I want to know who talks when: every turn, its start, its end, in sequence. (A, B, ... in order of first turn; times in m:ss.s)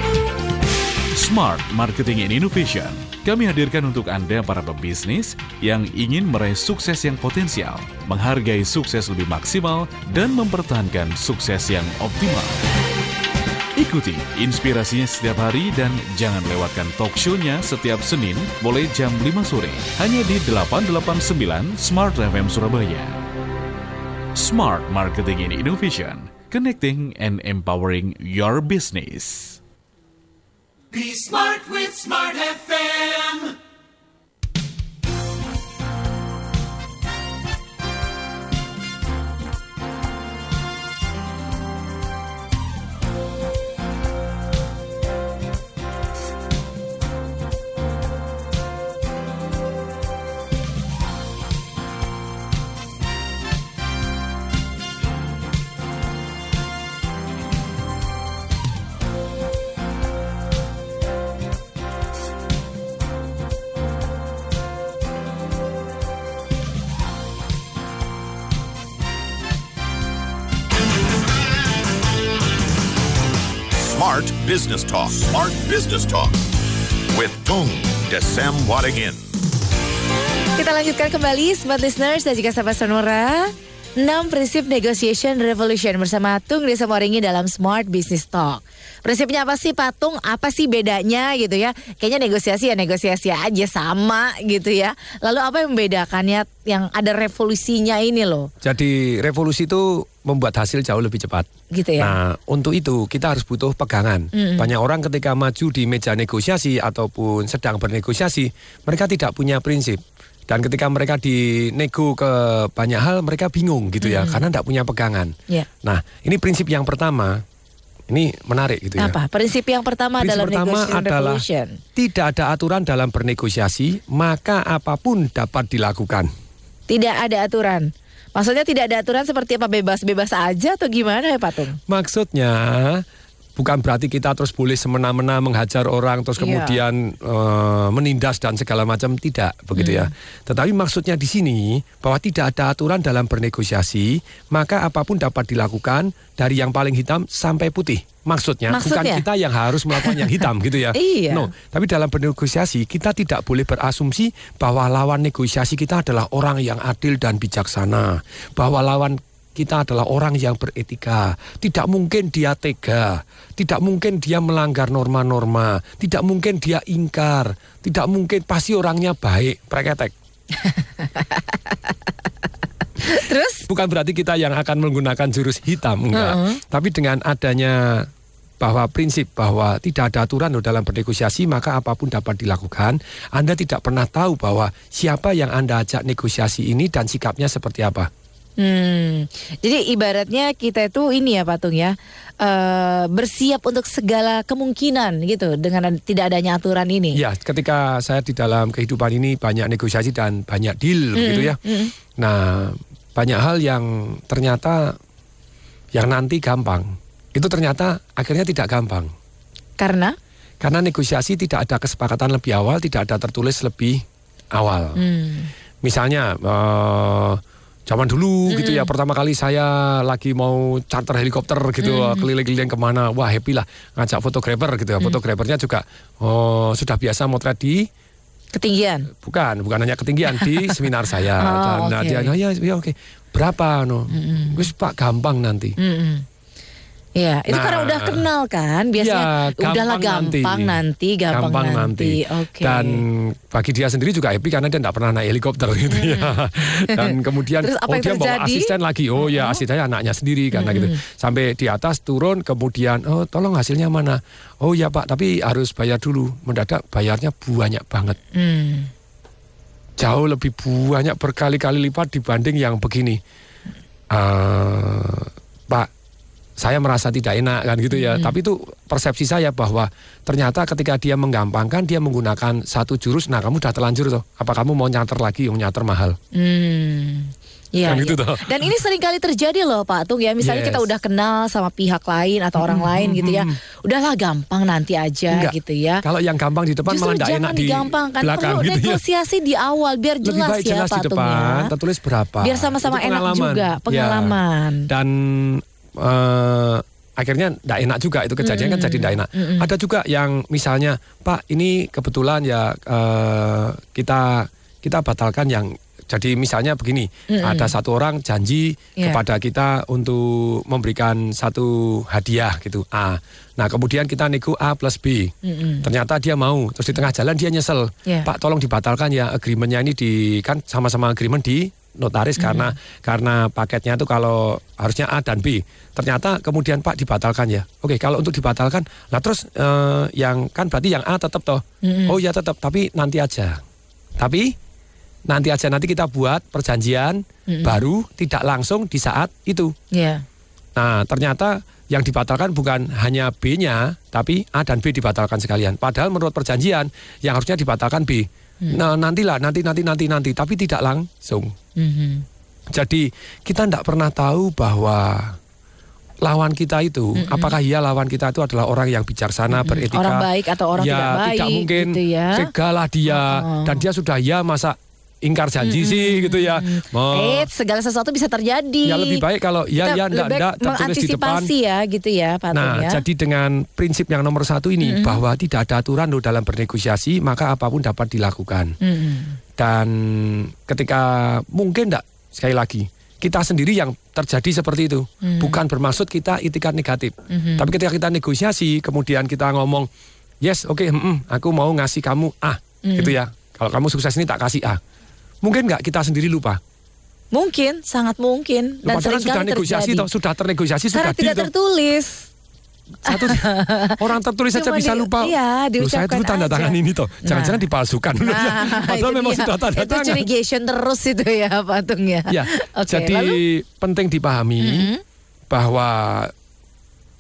0:01.2-0:12.7 A
0:13.8-0:23.2 A
0:24.4-0:29.6 A
0:30.9-0:33.5 B
1:13.7-1:16.4 C
1:17.1-1:19.2 C
1:20.6-1:38.5 D
1:38.6-1:41.5 E
1:41.7-1:42.2 D
1:42.0-1:57.4 E
1:44.4-1:44.7 D
1:54.0-1:54.4 D
1:58.1-1:59.2 E
1:59.0-2:01.8 D
2:00.2-2:01.4 E
2:02.0-2:06.3 E
2:06.9-2:11.8 D
2:11.9-2:13.0 E
2:13.6-2:50.1 E
2:16.4-2:16.8 D
2:19.8-2:20.1 D
2:28.7-2:29.2 D
2:29.9-2:30.4 D
2:30.9-2:31.5 D
2:50.6-2:51.4 D
2:53.0-2:53.7 D
2:53.7-2:58.1 E
2:56.1-2:56.6 D
2:58.6-3:08.1 E
3:08.6-3:17.2 D
3:17.1-3:21.6 E
3:21.2-3:21.9 D
3:22.1-3:25.0 E
3:25.9-3:29.1 E
3:29.8-3:30.2 D
3:30.6-3:34.0 E
3:34.5-3:35.0 E
3:35.0-3:35.5 D
3:35.8-3:47.9 E
3:38.5-3:38.9 D
3:41.8-3:42.3 D
3:48.5-3:49.1 D
3:49.1-3:55.8 E
3:51.4-3:52.3 D
3:54.1-3:54.7 D
3:55.8-3:56.2 D
3:57.2-4:03.0 D
3:57.5-3:58.3 E
3:59.0-4:00.8 E
4:01.3-4:18.2 E
4:05.9-4:09.6 D
4:10.5-4:11.0 D
4:18.3-4:18.9 D
4:20.0-4:23.2 E
4:24.1-4:25.9 E
4:26.6-4:36.2 E
4:28.0-4:28.4 D
4:36.3-4:46.0 D
4:37.8-4:38.8 E
4:40.4-4:40.9 E
4:42.6-4:43.6 E
4:45.3-4:49.0 E
4:46.9-4:51.7 D
4:50.2-4:54.4 E
4:52.4-4:54.9 D
4:54.9-5:33.6 E
4:58.4-4:59.7 D
5:07.3-5:07.7 D
5:15.4-5:15.9 D
5:22.4-5:22.7 D
5:31.8-5:32.2 D
5:34.2-5:34.6 E
5:35.3-5:39.7 E
5:37.5-5:37.8 D
5:39.9-5:40.2 D
5:40.8-5:51.5 E
5:51.8-5:52.2 D
5:52.7-5:55.4 E
5:56.2-6:07.5 E
5:57.2-5:57.5 D
5:59.5-6:02.5 D
6:03.1-6:03.8 D
6:05.6-6:09.2 D
6:08.8-6:11.5 E
6:09.8-6:13.0 D
6:12.5-6:18.7 E
6:14.8-6:15.2 D
6:18.8-6:19.4 D
6:19.6-6:29.9 E
6:25.2-6:25.6 D
6:27.3-6:27.7 D
6:30.4-6:34.8 E
6:32.9-6:33.2 D
6:35.4-6:36.6 E
6:37.3-6:40.1 D
6:38.8-6:41.5 E
6:40.9-6:42.3 D
6:43.1-6:43.4 E
6:43.1-6:44.0 D
6:44.0-6:50.3 E
6:44.5-6:47.6 D
6:48.2-6:53.4 D
6:52.3-6:54.9 E
6:54.6-6:55.0 D
6:55.5-6:56.3 E